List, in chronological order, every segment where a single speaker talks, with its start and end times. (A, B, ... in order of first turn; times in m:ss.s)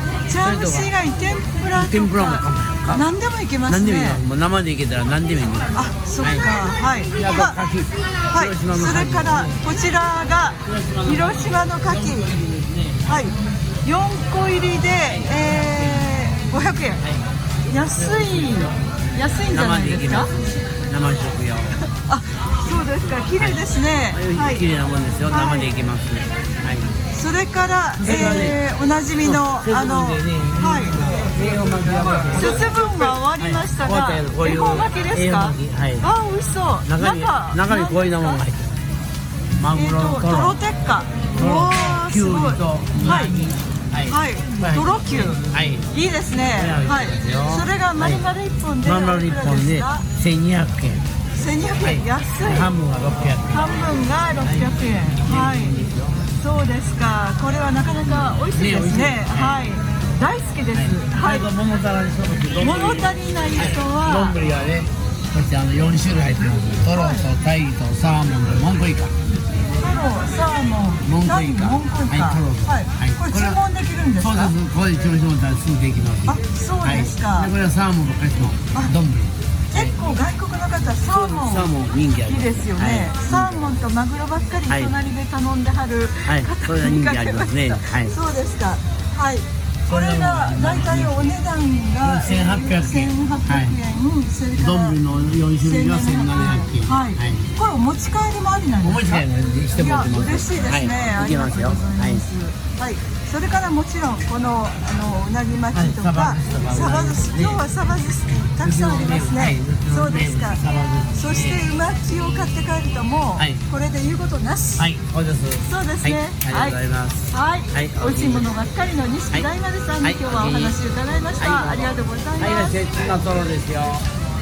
0:00.3-0:04.2 A
0:00.4-0:00.9 B
0:01.7-0:03.1 B
0:03.7-0:06.5 B
0:05.7-0:07.6 A
0:07.2-0:09.6 B
0:08.3-0:12.4 A
0:10.6-0:13.2 B
0:13.0-0:17.0 A
0:15.1-0:16.1 B
0:17.7-0:20.3 A
0:17.9-0:18.8 B
0:19.5-0:21.8 B
0:22.0-0:24.7 A
0:23.4-0:27.0 B
0:25.3-0:25.7 A
0:27.1-0:31.1 A
0:28.0-0:28.6 B
0:29.2-0:36.1 B
0:32.3-0:38.4 A
0:36.8-0:38.8 B
0:39.6-0:40.6 B
0:39.7-0:43.4 A
0:41.3-0:45.9 B
0:44.1-0:50.1 A
0:46.5-0:48.3 B
0:48.8-0:51.0 B
0:51.3-0:52.7 A
0:51.8-0:53.7 B
0:53.5-0:55.8 A
0:54.4-0:56.3 B
0:56.3-1:01.5 A
0:58.1-0:59.6 B
1:00.7-1:09.1 B
1:02.6-1:04.4 A
1:06.9-1:07.3 A
1:09.8-1:14.5 A
1:11.0-1:13.6 B
1:14.2-1:19.9 B
1:16.3-1:17.5 A
1:19.7-1:35.0 A
1:21.0-1:23.8 B
1:24.7-1:24.9 B
1:26.2-1:28.2 B
1:29.9-1:31.3 B
1:32.0-1:33.8 B
1:34.6-1:37.5 B
1:35.6-1:50.6 A
1:38.8-1:42.2 B
1:45.7-1:47.6 B
1:48.4-1:51.6 B
1:51.1-1:54.9 A
1:54.8-1:58.5 B
1:55.7-1:56.8 A
1:57.3-2:02.8 A
2:00.0-2:00.8 B
2:01.4-2:04.1 B